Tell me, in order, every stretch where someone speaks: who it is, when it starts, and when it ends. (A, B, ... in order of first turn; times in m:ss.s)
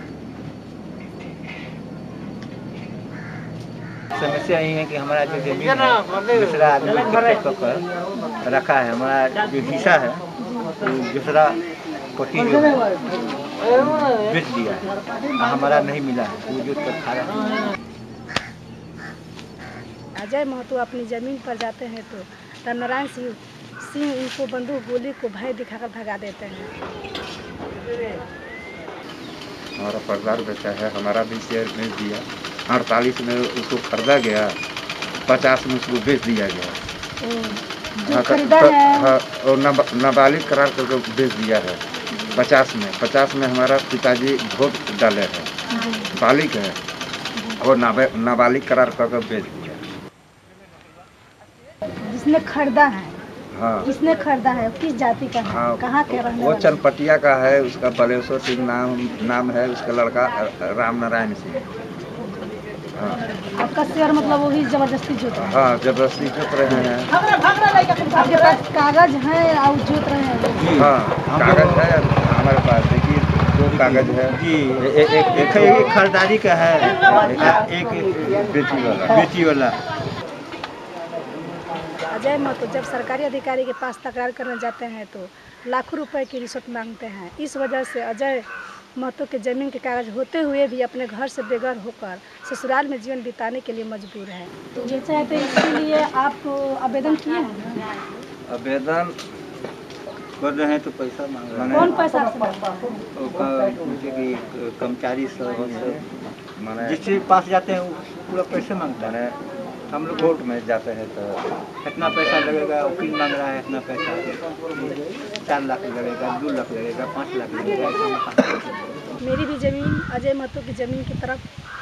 0:04.1-0:07.8 A
0:08.4-0:10.2 A
0:10.8-0:11.6 A
0:12.1-0:12.9 A
0:13.6-0:17.6 A
0:20.2-0:26.7 B
0:29.8-0:34.5 C
0:35.3-0:36.8 C
0:37.2-0:39.1 B
0:38.1-0:41.8 C
0:42.1-0:42.4 B
0:42.3-0:45.5 C
0:45.7-0:46.1 B
0:46.1-0:46.8 C
0:47.6-0:49.8 C
0:52.0-0:53.2 B
0:53.5-0:53.9 C
0:53.8-0:56.8 B
0:55.4-1:01.6 C
1:02.9-1:03.2 C
1:03.6-1:05.7 B
1:05.3-1:07.1 C
1:07.6-1:10.7 B
1:10.6-1:11.9 A
1:10.7-1:15.9 C
1:13.6-1:18.5 A
1:17.1-1:17.6 C
1:18.2-1:19.3 C
1:19.0-1:19.8 A
1:22.1-1:38.0 B
1:38.5-1:39.2 C
1:40.4-1:41.9 A
1:41.5-1:41.9 C
1:41.7-1:42.8 B
1:43.1-1:46.0 A
1:45.6-1:46.0 C
1:46.6-1:47.0 C
1:46.8-1:49.2 A
1:49.0-1:49.4 C
1:49.9-1:50.4 A
1:50.1-1:51.4 C
1:51.8-1:59.1 A
1:52.0-1:52.3 C
1:59.2-2:01.4 B